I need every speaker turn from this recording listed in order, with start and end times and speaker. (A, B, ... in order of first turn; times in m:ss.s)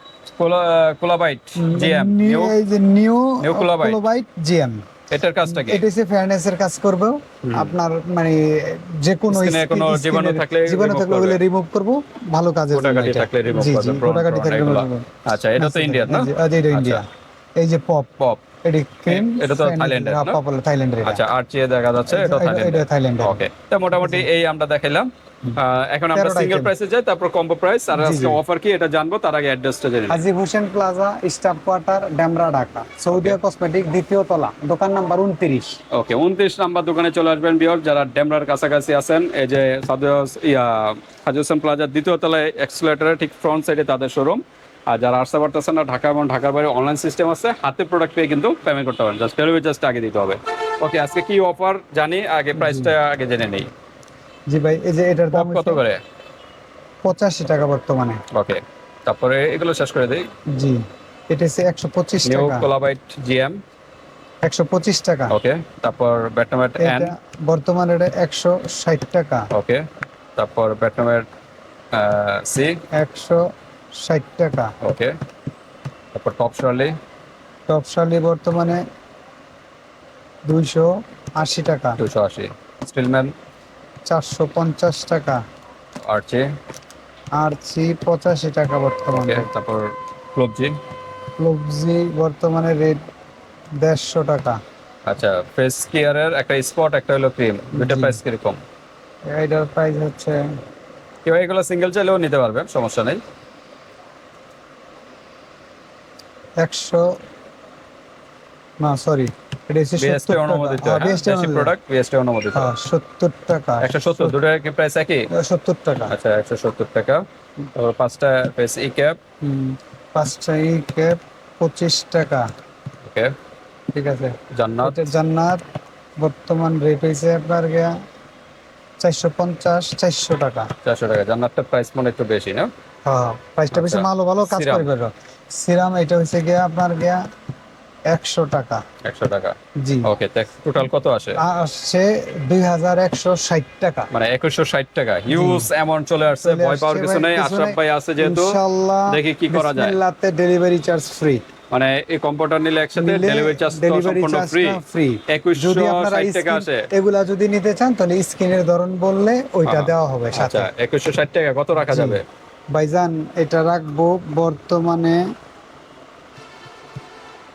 0:00.4-0:02.5 A
0:01.6-0:04.8 B
0:03.4-0:04.0 A
0:05.1-0:05.8 A
0:05.4-0:18.1 B
0:07.4-0:07.7 A
0:09.3-0:11.4 A
0:12.7-0:17.0 A
0:18.6-0:21.2 B
0:19.1-0:20.4 A
0:21.0-0:30.2 A
0:22.1-0:24.3 B
0:26.1-0:26.7 B
0:27.9-0:28.4 B
0:30.1-0:35.8 B
0:33.1-0:33.4 A
0:35.9-0:53.7 A
0:52.5-0:52.9 B
0:54.5-0:55.8 B
0:55.3-0:56.0 A
0:57.0-0:58.2 B
0:58.3-1:00.3 A
1:00.5-1:02.7 B
1:02.2-1:03.6 A
1:04.4-1:05.4 B
1:05.3-1:07.1 A
1:06.8-1:09.5 B
1:09.5-1:09.8 A
1:10.4-1:11.2 A
1:11.9-1:12.8 A
1:12.9-1:14.7 B
1:14.8-1:15.2 A
1:16.1-1:17.0 A
1:17.7-1:18.8 B
1:20.4-1:22.0 B
1:22.0-1:23.3 A
1:24.0-1:25.4 B
1:26.0-1:26.5 A
1:27.4-1:29.5 B
1:29.1-1:30.8 A
1:31.4-1:33.0 B
1:33.8-1:34.6 B
1:35.1-1:38.6 A
1:37.7-1:38.2 B
1:39.3-1:40.4 B
1:41.2-1:43.2 A
1:46.6-1:47.1 B
1:48.8-1:51.7 B
1:50.0-1:52.7 A
1:52.5-1:54.4 B
1:53.8-1:55.3 A
1:55.3-1:56.1 B
1:56.1-1:57.2 A
1:57.7-1:59.2 A
1:59.4-2:02.4 B
2:03.0-2:03.3 A
2:03.9-2:05.6 B
2:04.5-2:05.1 A
2:06.2-2:07.9 B
2:09.0-2:10.7 B
2:10.8-2:12.7 A
2:13.0-2:17.2 B
2:13.7-2:14.9 A
2:18.1-2:18.8 B
2:19.0-2:21.4 A
2:19.8-2:20.1 B
2:21.4-2:24.1 B
2:24.1-2:30.0 A
2:25.3-2:25.7 B
2:26.4-2:31.4 B
2:31.7-2:36.9 A
2:32.9-2:40.7 B
2:39.6-2:42.2 A
2:41.8-2:42.2 B
2:42.7-2:45.2 B